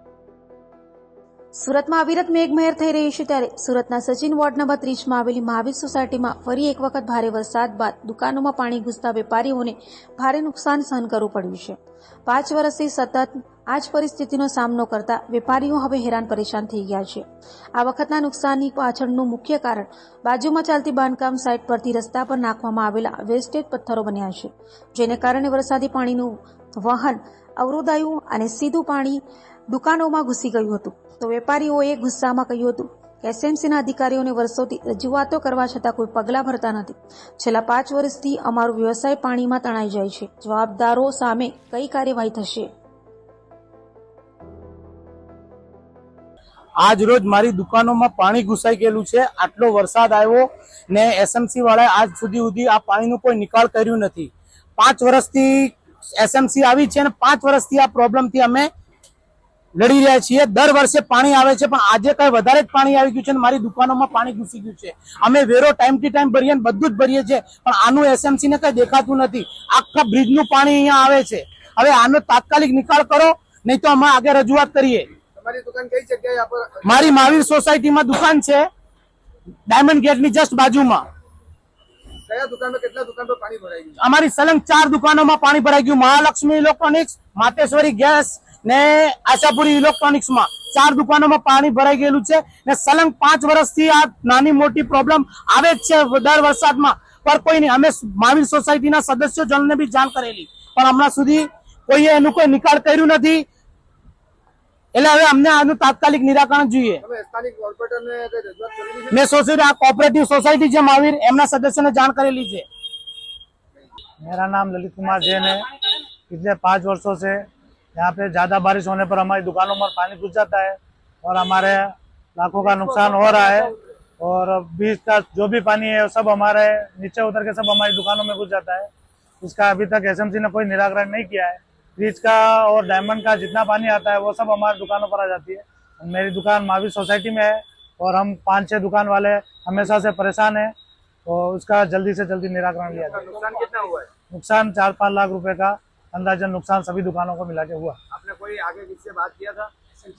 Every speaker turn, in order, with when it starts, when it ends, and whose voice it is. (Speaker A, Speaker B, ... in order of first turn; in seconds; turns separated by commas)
Speaker A: 1.5-42.7, Speaker B: 46.8-58.7, Speaker B: 59.8-75.1, Speaker C: 75.4-77.2, Speaker B: 76.8-78.7, Speaker B: 79.7-81.0, Speaker C: 82.2-84.0, Speaker B: 84.0-103.4, Speaker B: 104.9-107.0, Speaker C: 107.0-109.2, Speaker B: 109.1-112.7, Speaker D: 114.2-115.7, Speaker D: 116.3-128.9, Speaker D: 129.4-140.7, Speaker D: 141.2-143.3, Speaker C: 143.0-144.1, Speaker D: 144.3-148.0, Speaker C: 148.1-149.7